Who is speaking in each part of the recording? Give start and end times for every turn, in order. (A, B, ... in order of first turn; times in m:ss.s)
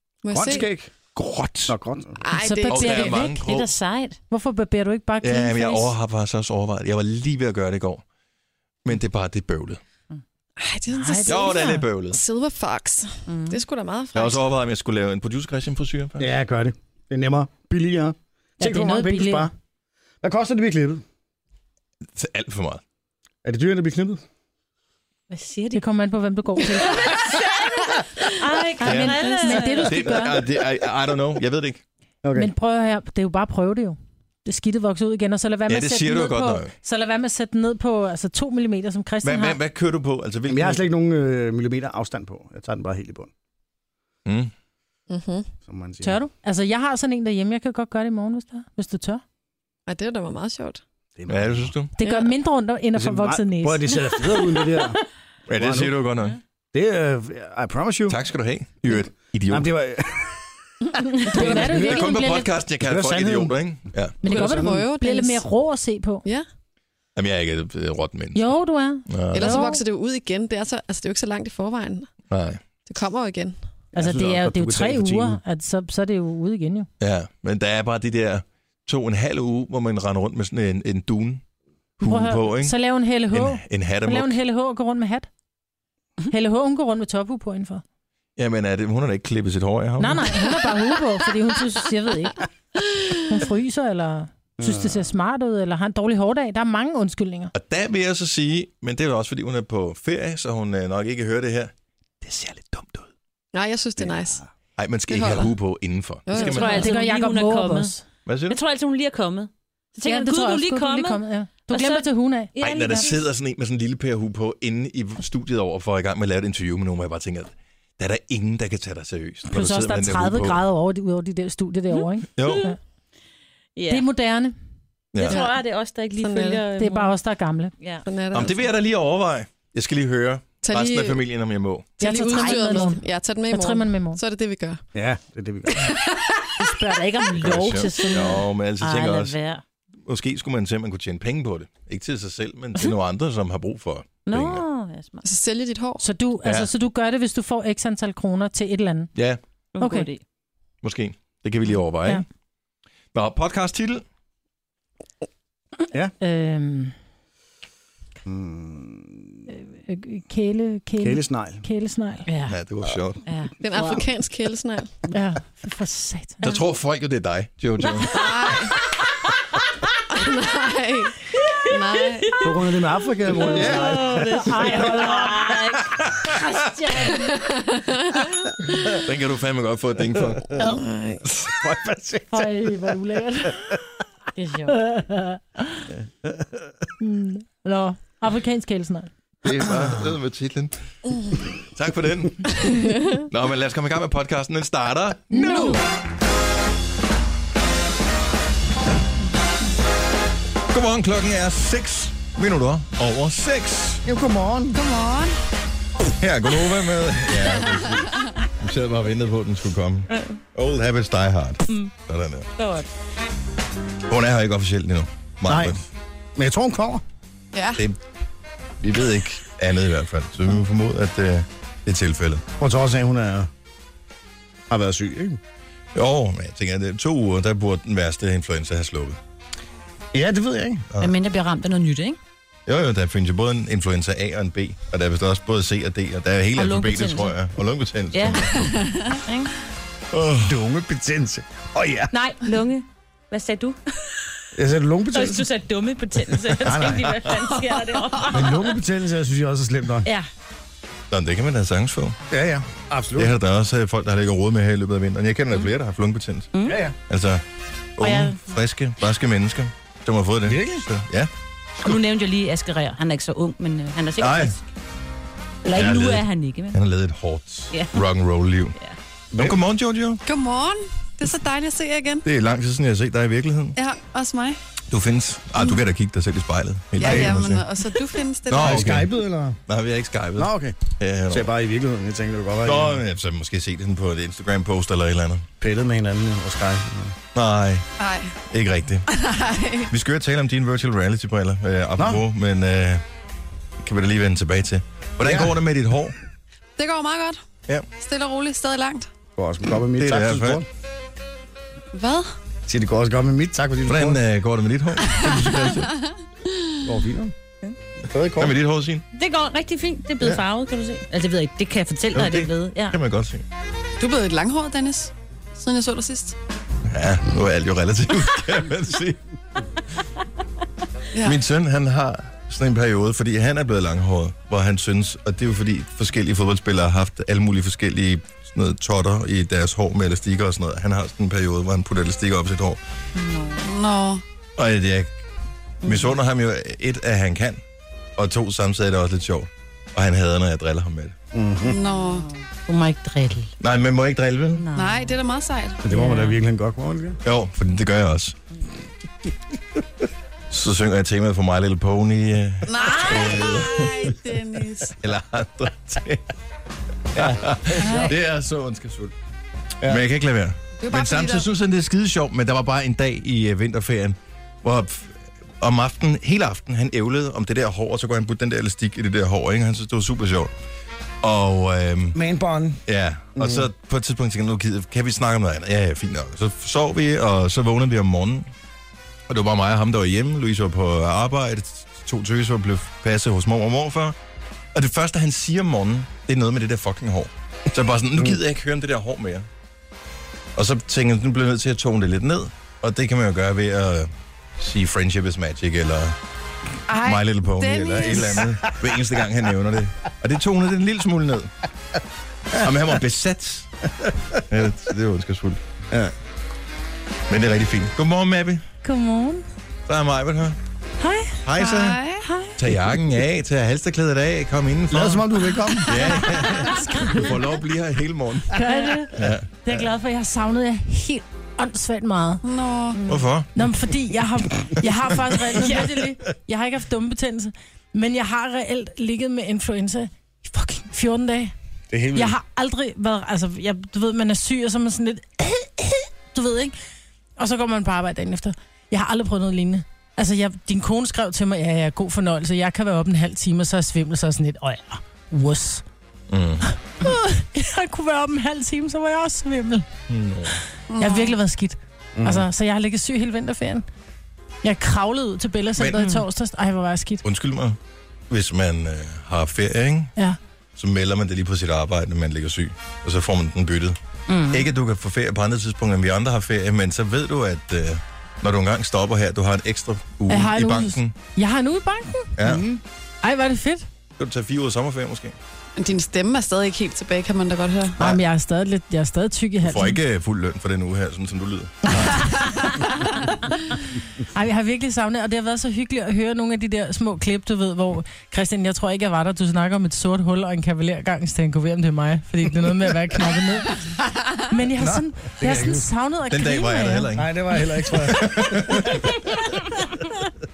0:00.2-0:00.7 A
0:00.3-0:00.9 B
0:01.1-0:01.8 C
0:01.7-0:02.2 B
0:02.2-0:03.0 A
0:02.3-0:03.4 D
0:02.7-0:03.7 C
0:03.1-0:04.2 E
0:04.3-0:05.9 D
0:05.2-0:08.0 C
0:08.8-0:09.8 C
0:10.6-0:14.4 A
0:10.9-0:11.6 D
0:11.2-0:12.2 C
0:13.3-0:13.6 E
0:14.1-0:16.3 C
0:16.2-0:19.5 B
0:18.6-0:19.5 D
0:20.2-0:21.0 B
0:22.1-0:22.8 C
0:23.4-0:24.2 B
0:25.3-0:25.8 E
0:25.7-0:27.0 D
0:28.2-0:30.2 E
0:28.8-0:30.4 D
0:28.8-0:29.2 C
0:29.9-0:31.8 C
0:32.2-0:32.5 B
0:32.3-0:39.6 D
0:35.7-0:36.7 C
0:39.2-0:40.8 C
0:40.5-0:43.3 B
0:44.2-0:44.5 C
0:45.1-0:45.5 A
0:45.6-0:46.2 B
0:46.0-0:49.2 D
0:49.9-0:50.8 A
0:51.2-0:51.7 B
0:51.3-0:51.9 C
0:52.0-0:54.8 D
0:52.0-0:52.3 A
0:52.9-0:55.0 B
0:55.5-0:56.4 C
0:55.5-0:55.9 B
0:56.7-0:58.2 B
0:58.1-0:59.7 C
0:59.5-1:00.4 B
1:01.1-1:02.5 D
1:01.1-1:02.0 B
1:01.3-1:04.2 C
1:02.8-1:03.6 B
1:04.2-1:05.4 A
1:04.2-1:06.2 D
1:04.3-1:04.8 B
1:07.1-1:09.6 C
1:08.3-1:09.8 D
1:09.3-1:12.1 A
1:12.3-1:12.6 C
1:12.8-1:13.6 A
1:13.9-1:15.4 B
1:13.9-1:16.9 D
1:17.0-1:21.4 C
1:22.0-1:22.8 C
1:22.0-1:25.3 D
1:23.3-1:24.4 C
1:26.3-1:27.8 D
1:28.4-1:30.5 C
1:30.0-1:32.5 D
1:33.2-1:37.5 D
1:34.6-1:35.1 B
1:37.5-1:41.7 C
1:42.2-1:43.1 C
1:43.5-1:44.4 A
1:44.8-1:46.9 C
1:45.1-1:45.6 A
1:46.2-1:46.8 A
1:46.3-1:47.9 E
1:46.5-1:48.0 D
1:48.2-1:48.6 C
1:48.5-1:53.2 E
1:50.0-1:53.0 D
1:52.6-2:00.6 C
1:59.5-2:02.8 D
2:02.4-2:02.7 C
2:02.4-2:02.7 E
2:03.7-2:04.0 E
2:03.9-2:04.5 D
2:05.1-2:05.4 C
2:05.2-2:07.2 E
2:05.2-2:05.6 A
2:06.2-2:06.6 A
2:06.8-2:07.7 D
2:07.8-2:08.0 E
2:08.0-2:08.6 A
2:08.3-2:12.0 C
2:10.6-2:11.2 A
2:12.0-2:14.8 A
2:12.0-2:14.2 D
2:14.9-2:15.9 B
2:15.8-2:16.4 A
2:16.6-2:19.6 E
2:17.3-2:19.4 C
2:20.0-2:24.6 C
2:24.2-2:25.2 E
2:25.2-2:26.0 A
2:26.0-2:29.1 D
2:26.4-2:26.7 C
2:29.1-2:29.4 C
2:29.7-2:30.2 E
2:29.8-2:30.1 D
2:30.8-2:32.2 C
2:33.1-2:34.0 C
2:36.2-2:36.9 D
2:38.2-2:39.4 B
2:39.5-2:42.2 D
2:41.0-2:41.6 B
2:42.3-2:42.5 E
2:42.5-2:43.2 C
2:43.2-2:44.0 E
2:43.6-2:44.9 A
2:45.1-2:46.6 D
2:46.4-2:48.1 C
2:48.1-2:48.7 A
2:50.1-2:52.4 A
2:52.4-2:54.7 B
2:53.4-2:55.8 E
2:53.7-2:55.5 D
2:56.5-2:57.2 D
2:57.3-2:58.2 A
2:59.0-3:00.6 C
3:00.6-3:01.2 A
3:01.5-3:03.0 B
3:02.3-3:03.6 D
3:03.5-3:03.8 B
3:04.4-3:04.7 E
3:04.7-3:05.8 D
3:06.2-3:06.7 B
3:07.0-3:09.1 D
3:09.4-3:10.7 C
3:09.5-3:10.1 B
3:11.7-3:12.8 C
3:13.3-3:15.8 C
3:15.3-3:15.8 D
3:20.7-3:24.0 C
3:24.0-3:24.8 B
3:24.7-3:25.4 A
3:26.2-3:32.5 C
3:30.1-3:30.4 E
3:32.6-3:32.9 E
3:34.1-3:35.8 C
3:35.4-3:35.8 B
3:36.4-3:37.0 B
3:37.5-3:37.8 A
3:38.8-3:42.4 C
3:42.6-3:43.5 B
3:44.7-3:45.4 B
3:45.9-3:49.2 C
3:50.1-3:50.8 B
3:51.0-3:52.2 E
3:52.7-3:58.7 C
3:56.6-3:57.4 E
3:58.1-3:58.5 E
3:58.7-3:59.1 A
3:59.1-3:59.5 E
4:00.1-4:00.6 C
4:00.4-4:02.1 B
4:02.1-4:03.8 E
4:04.5-4:05.5 B
4:05.1-4:08.7 E
4:06.6-4:07.2 C
4:06.6-4:07.1 B
4:08.2-4:10.1 B
4:11.1-4:12.2 C
4:12.3-4:13.3 B
4:13.2-4:16.5 C
4:16.5-4:16.8 E
4:16.6-4:16.9 B
4:17.1-4:17.4 C
4:18.0-4:21.3 C
4:18.0-4:18.4 E
4:20.4-4:20.8 B
4:21.8-4:24.6 E
4:24.2-4:24.6 C
4:25.6-4:26.8 E
4:25.7-4:28.7 C
4:27.7-4:28.0 E
4:29.3-4:30.2 C
4:30.2-4:32.2 A
4:32.2-4:33.8 C
4:33.8-4:34.6 A
4:34.9-4:37.7 C
4:37.0-4:38.9 A
4:37.0-4:37.4 B
4:38.5-4:39.1 C
4:38.5-4:39.6 B
4:39.7-4:41.5 C
4:40.4-4:43.0 B
4:42.6-4:45.4 C
4:45.6-4:47.2 B
4:47.3-4:47.8 C
4:48.0-4:48.4 A
4:48.5-4:49.0 C
4:49.1-4:49.9 A
4:49.9-4:53.0 C
4:52.0-4:52.2 B
4:53.8-4:56.2 C
4:55.2-4:55.5 B
4:56.8-4:57.4 A
4:58.0-4:59.1 A
4:59.4-5:00.6 B
5:00.0-5:00.6 C
5:01.9-5:02.4 A
5:02.7-5:04.2 B
5:03.9-5:05.9 C
5:05.2-5:06.0 A
5:06.8-5:07.3 B
5:08.1-5:08.5 B
5:08.4-5:09.0 C
5:09.1-5:13.0 E
5:12.1-5:13.4 C
5:14.0-5:16.4 A
5:16.9-5:19.2 C
5:21.1-5:21.4 A
5:21.2-5:32.8 C
5:33.2-5:33.6 E
5:33.6-5:34.2 A
5:34.6-5:35.2 C
5:35.8-5:37.6 C
5:38.2-5:41.1 C
5:41.3-5:41.8 B
5:41.6-5:42.3 A
5:41.8-5:43.5 E
5:43.6-5:44.6 C
5:44.6-5:45.2 E
5:44.7-5:45.8 A
5:45.8-5:47.2 B
5:45.9-5:46.4 E
5:47.2-5:48.3 C
5:50.5-5:54.1 C
5:52.6-5:54.9 A
5:55.0-5:56.2 C
5:57.1-5:59.1 C
5:57.1-5:58.1 B
5:57.8-5:58.2 A
5:59.8-6:10.5 C
6:00.8-6:01.5 A
6:11.2-6:12.2 C
6:12.1-6:12.8 B
6:12.9-6:18.5 C
6:13.3-6:13.7 B
6:19.3-6:24.1 C
6:24.7-6:29.4 C
6:30.6-6:36.2 C
6:36.9-6:38.6 A
6:37.0-6:41.5 C
6:38.4-6:38.9 B
6:42.5-6:43.7 C
6:44.5-6:45.6 C
6:47.3-6:48.6 C
6:48.8-6:49.4 D
6:49.9-6:50.6 C
6:51.0-6:51.4 D
6:51.4-6:52.0 C
6:51.6-6:52.2 A
6:52.2-6:52.6 D
6:52.6-6:55.3 C
6:54.9-6:56.0 B
6:55.8-6:58.6 C
6:56.0-6:56.4 A
6:56.5-6:57.3 D
6:58.5-7:02.4 D
6:59.1-6:59.6 C
7:02.4-7:03.0 A
7:03.1-7:11.5 D
7:03.1-7:03.5 C
7:05.5-7:05.9 C
7:11.9-7:12.3 B
7:12.1-7:16.8 D
7:17.4-7:25.8 D
7:26.3-7:26.7 C
7:27.0-7:29.9 D
7:30.1-7:30.6 C
7:30.9-7:31.4 A
7:31.0-7:33.8 D
7:32.2-7:32.4 B
7:34.6-7:37.2 D
7:35.8-7:36.1 C
7:37.2-7:37.8 C
7:38.3-7:40.1 C
7:40.8-7:44.0 C
7:44.3-7:44.6 E
7:44.5-7:51.1 C
7:50.3-7:52.3 D
7:52.4-7:52.7 C
7:52.4-7:52.8 E
7:53.2-7:53.8 D
7:54.2-7:55.3 C
7:55.8-7:58.0 A
7:58.0-8:00.0 D
7:59.6-8:02.7 C
8:01.9-8:13.8 D
8:14.4-8:17.1 D
8:15.4-8:15.8 B
8:16.3-8:17.3 C
8:17.1-8:19.1 B
8:17.9-8:19.0 C
8:20.0-8:20.3 D